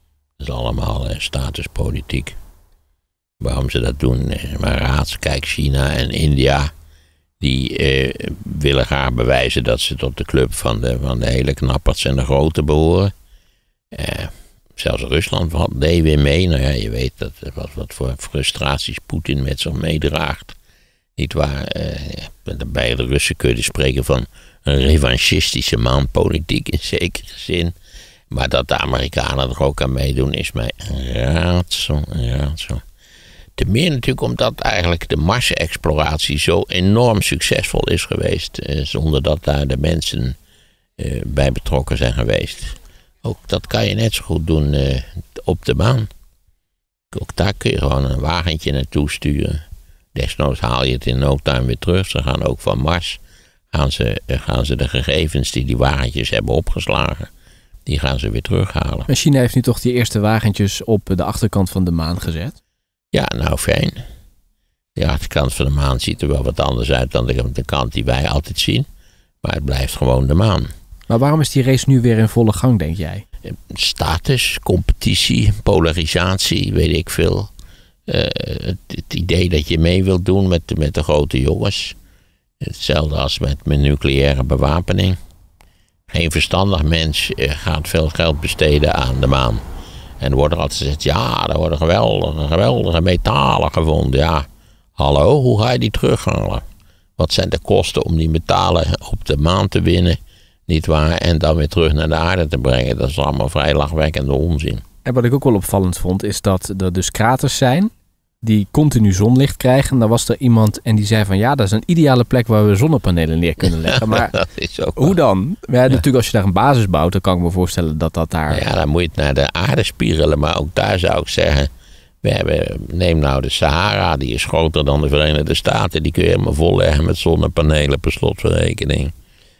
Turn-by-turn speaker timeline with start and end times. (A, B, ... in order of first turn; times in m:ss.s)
0:00.4-0:02.4 A
0:03.4-0:06.7 A
0:07.4-0:13.1 A
0:13.9-0:20.6 A
0:21.2-0:27.8 A
0:28.3-0:32.8 A
0:33.6-0:40.4 A
0:41.0-0:46.1 A
0:47.1-0:49.6 A
0:50.1-0:53.2 A
0:53.7-0:57.3 A
0:57.8-0:59.1 A
0:59.1-1:02.5 B
1:03.1-1:04.0 A
1:05.0-1:08.9 A
1:09.4-1:10.7 A
1:11.1-1:13.2 B
1:13.7-1:17.5 A
1:18.1-1:22.0 A
1:22.6-1:25.2 A
1:26.1-1:29.6 A
1:30.2-1:36.6 A
1:37.2-1:44.8 A
1:45.0-1:47.9 B
1:48.4-1:54.3 B
1:53.9-1:55.2 A
1:55.0-1:58.6 B
1:58.5-2:01.7 A
2:02.2-2:09.1 A